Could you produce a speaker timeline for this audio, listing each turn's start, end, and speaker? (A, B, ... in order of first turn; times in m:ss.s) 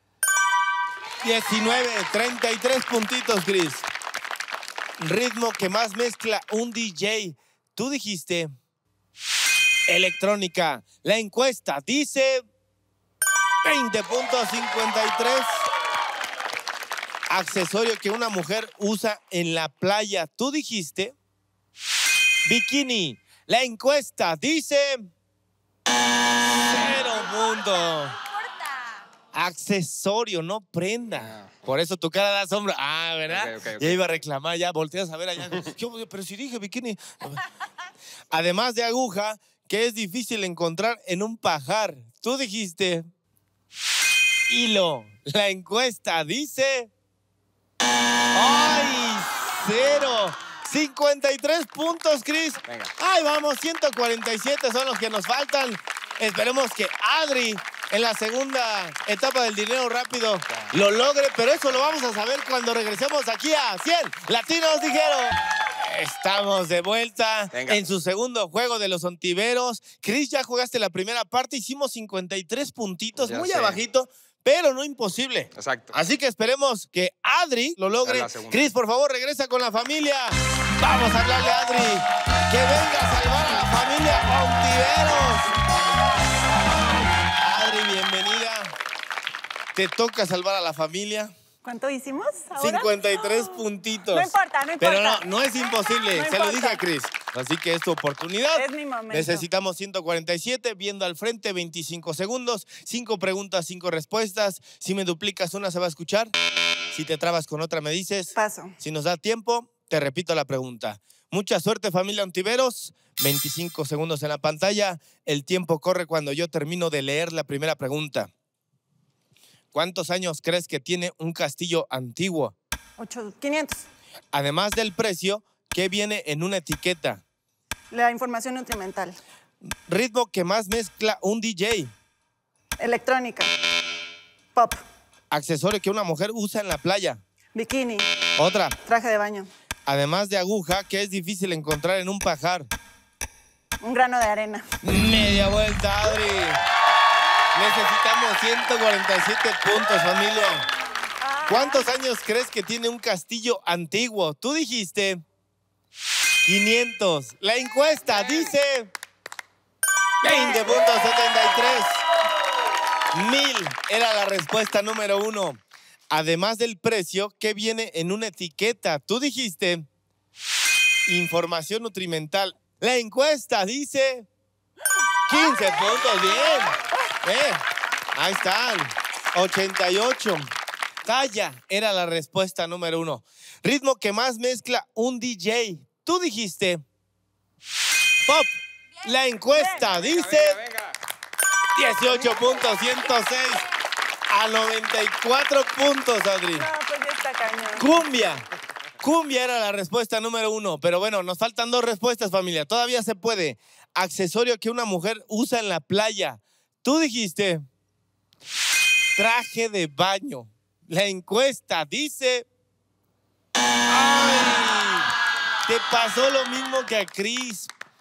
0:01.2-0:03.9 A
0:05.0-0:08.5 A
0:09.9-0:12.4 A
0:13.6-0:15.6 A
0:17.3-0:21.1 A
0:22.4-0:25.1 A
0:26.5-0:28.2 A
0:29.3-0:37.4 A
0:31.2-0:31.5 B
0:33.3-0:34.0 B
0:38.3-0:43.1 A
0:44.5-0:46.9 A
0:48.3-1:25.5 A
0:52.7-0:52.9 B
1:07.5-1:07.8 B
1:13.2-1:13.8 B
1:15.6-1:15.9 B
1:18.0-1:18.6 B
1:27.4-1:28.7 A
1:29.7-1:31.3 A
1:31.6-1:33.6 C
1:32.6-1:46.3 A
1:34.1-1:35.3 C
1:36.1-1:36.8 C
1:38.5-1:39.4 C
1:46.9-1:58.3 A
1:48.3-1:48.8 C
1:59.7-2:02.5 A
2:03.0-2:03.9 C
2:04.3-2:07.2 A
2:07.9-2:09.2 C
2:09.6-2:11.9 A
2:12.8-2:13.5 C
2:14.5-2:14.8 C
2:15.3-2:17.2 A
2:17.6-2:18.1 C
2:18.4-2:18.8 A
2:18.8-2:19.5 C
2:19.9-2:22.7 A
2:23.8-2:24.6 C
2:24.8-2:26.6 A
2:27.5-2:30.7 A
2:31.2-2:31.9 C
2:31.5-2:35.2 A
2:36.4-2:38.9 A
2:40.2-2:42.0 A
2:43.1-2:49.9 A
2:51.0-2:54.3 A
2:55.2-2:57.6 A
2:58.1-3:00.5 A
3:01.0-3:06.8 A
3:08.2-3:10.6 A
3:09.8-3:11.0 B
3:11.7-3:13.6 A
3:14.3-3:16.7 A
3:16.6-3:17.8 C
3:17.8-3:18.4 A
3:19.0-3:27.6 A
3:29.2-3:32.4 A
3:33.9-3:35.1 A
3:35.6-3:37.7 A